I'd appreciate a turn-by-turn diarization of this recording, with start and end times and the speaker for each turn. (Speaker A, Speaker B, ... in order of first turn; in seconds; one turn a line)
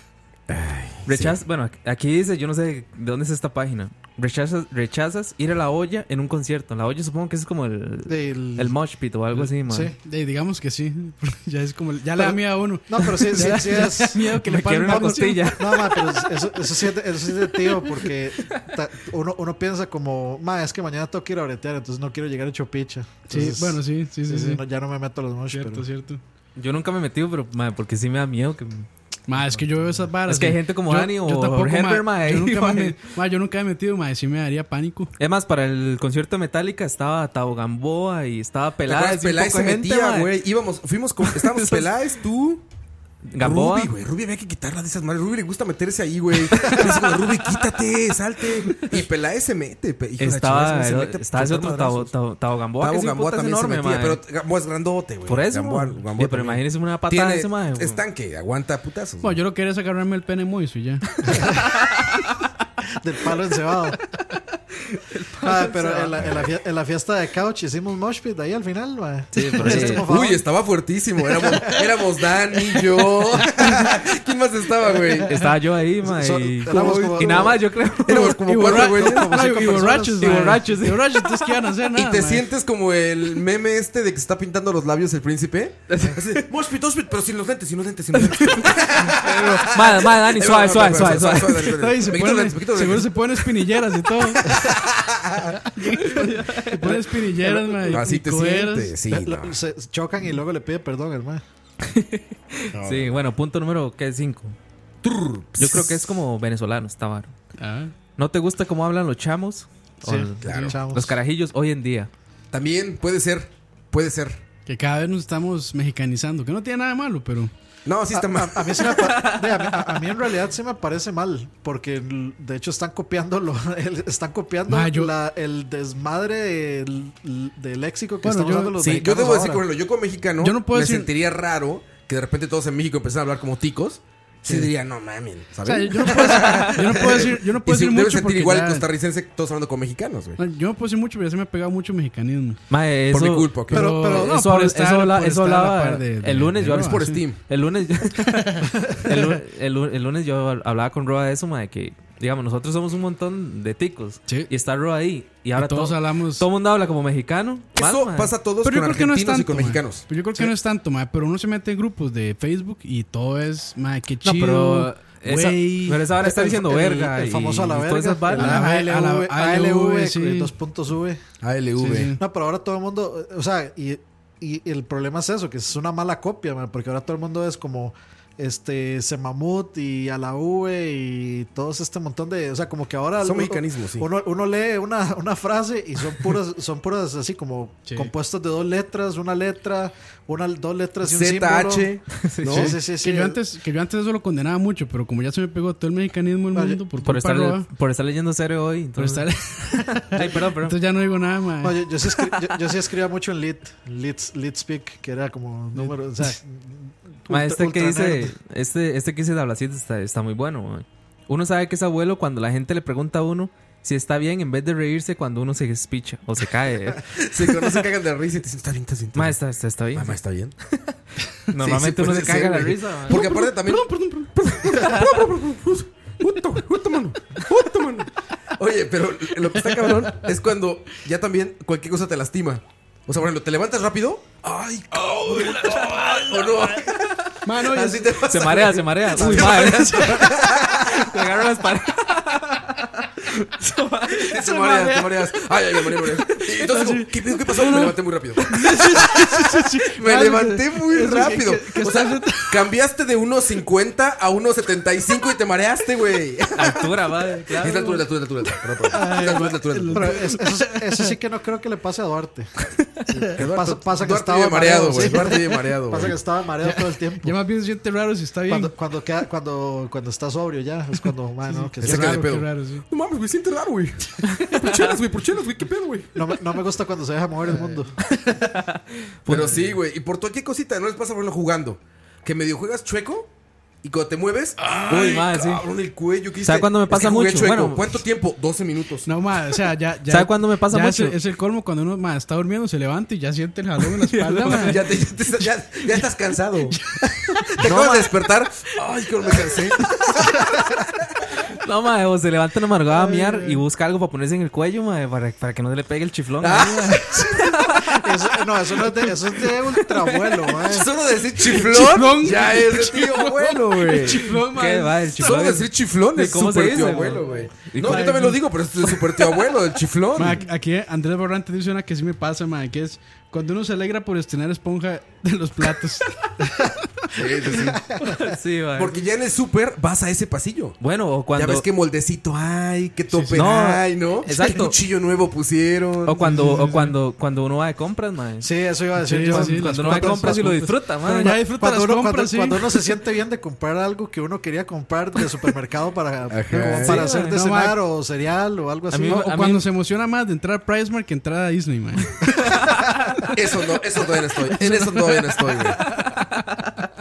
Speaker A: 0.5-1.4
Speaker B: 1.1-9.9
Speaker C: 8.1-8.8
Speaker C: 9.7-9.9
Speaker D: 10.0-16.0
Speaker C: 12.2-14.3
Speaker B: 14.1-16.2
Speaker C: 14.9-25.9
Speaker D: 23.3-24.6
Speaker D: 25.5-26.2
Speaker B: 26.6-28.9
Speaker D: 29.3-35.1
Speaker C: 29.4-30.1
Speaker B: 30.3-33.0
Speaker B: 35.2-40.4
Speaker A: 38.9-42.6
Speaker B: 41.2-41.9
Speaker B: 43.3-43.9
Speaker A: 43.4-52.1
Speaker B: 50.2-54.2
Speaker A: 52.8-59.4
Speaker B: 55.3-58.0
Speaker D: 59.2-61.0
Speaker C: 61.3-61.6
Speaker B: 61.3-62.2
Speaker C: 63.0-64.0
Speaker B: 65.1-66.2
Speaker C: 65.4-70.4
Speaker A: 66.2-66.5
Speaker B: 69.3-70.0
Speaker A: 69.6-75.3
Speaker B: 75.3-78.5
Speaker C: 76.0-77.7
Speaker A: 76.9-79.6
Speaker D: 78.2-82.5
Speaker C: 78.9-80.5
Speaker B: 80.2-81.5
Speaker A: 81.9-93.8
Speaker B: 85.9-86.4
Speaker B: 88.2-91.7
Speaker D: 91.6-94.5
Speaker A: 94.3-95.6
Speaker D: 95.7-98.9
Speaker B: 96.0-96.9
Speaker A: 97.8-99.6
Speaker C: 99.1-101.4
Speaker B: 101.8-104.6
Speaker A: 102.7-103.1
Speaker A: 105.0-106.0
Speaker B: 105.6-107.3
Speaker D: 107.6-107.9
Speaker B: 108.2-112.1
Speaker C: 110.0-111.2
Speaker A: 110.4-110.8
Speaker A: 112.5-114.4
Speaker D: 114.7-117.5
Speaker A: 117.9-119.0
Speaker C: 118.1-129.6
Speaker B: 118.9-120.0
Speaker D: 124.7-125.1
Speaker D: 128.2-128.8
Speaker A: 128.8-140.4
Speaker D: 130.4-131.1
Speaker D: 135.6-138.9
Speaker B: 136.1-136.8
Speaker D: 140.4-142.6
Speaker B: 142.7-158.3
Speaker A: 143.1-143.9
Speaker D: 143.7-147.2
Speaker C: 143.7-144.3
Speaker A: 146.6-147.4
Speaker D: 148.3-149.3
Speaker D: 155.5-156.5
Speaker A: 157.8-160.1
Speaker D: 158.6-166.1
Speaker B: 164.2-168.6
Speaker C: 166.2-171.2
Speaker D: 168.3-170.5
Speaker A: 171.4-172.2
Speaker D: 171.8-172.2
Speaker C: 172.2-191.9
Speaker A: 183.2-184.1
Speaker D: 187.9-188.1
Speaker A: 191.0-192.7
Speaker B: 192.2-192.7
Speaker C: 192.5-193.4
Speaker D: 192.5-197.7
Speaker C: 196.5-196.8
Speaker B: 197.0-200.8
Speaker D: 199.0-201.8
Speaker C: 201.6-208.3
Speaker D: 205.8-206.4
Speaker B: 207.3-217.8
Speaker A: 217.0-219.4
Speaker B: 219.2-220.2
Speaker A: 219.9-220.5
Speaker B: 221.5-223.3
Speaker A: 221.6-241.1
Speaker D: 223.1-224.4
Speaker D: 229.6-229.9
Speaker B: 235.9-236.2
Speaker D: 237.4-238.2
Speaker B: 238.3-244.4
Speaker D: 239.2-240.3
Speaker D: 244.3-245.2
Speaker A: 244.3-256.9
Speaker D: 246.5-252.7
Speaker B: 256.6-258.0
Speaker A: 257.6-260.2
Speaker D: 258.9-261.1
Speaker C: 259.9-262.5
Speaker A: 263.4-266.2
Speaker C: 263.4-267.4
Speaker D: 266.6-268.7
Speaker C: 268.5-272.2
Speaker D: 271.5-272.8
Speaker A: 271.8-276.1
Speaker B: 274.2-275.0
Speaker C: 276.1-277.9
Speaker B: 278.2-279.7
Speaker A: 279.3-283.3
Speaker A: 283.8-289.1
Speaker B: 284.6-285.7
Speaker B: 286.4-288.0
Speaker D: 289.1-294.8
Speaker B: 290.1-291.2
Speaker B: 294.0-295.1
Speaker A: 294.4-301.0
Speaker D: 296.7-298.1
Speaker B: 301.6-308.0
Speaker D: 302.9-303.6
Speaker A: 306.4-307.7
Speaker C: 307.9-310.9
Speaker A: 310.6-314.3
Speaker D: 311.5-315.6
Speaker B: 314.3-318.4
Speaker A: 315.2-320.4
Speaker D: 316.7-317.2
Speaker D: 317.8-318.4
Speaker B: 318.9-319.2
Speaker D: 320.1-326.2
Speaker A: 327.1-327.8
Speaker B: 328.0-329.0
Speaker A: 328.8-330.8
Speaker B: 330.8-331.7
Speaker A: 331.3-336.6
Speaker D: 333.1-333.5
Speaker B: 333.3-334.8
Speaker B: 336.1-338.5
Speaker D: 336.2-337.0
Speaker C: 338.4-340.6
Speaker D: 339.0-342.9
Speaker B: 339.2-341.4
Speaker C: 341.2-349.2
Speaker A: 346.3-347.1
Speaker B: 346.8-347.4
Speaker D: 347.1-347.8
Speaker B: 348.9-349.7
Speaker D: 349.0-352.3
Speaker B: 352.4-353.0
Speaker A: 353.3-355.9
Speaker D: 354.6-355.8
Speaker B: 356.1-356.8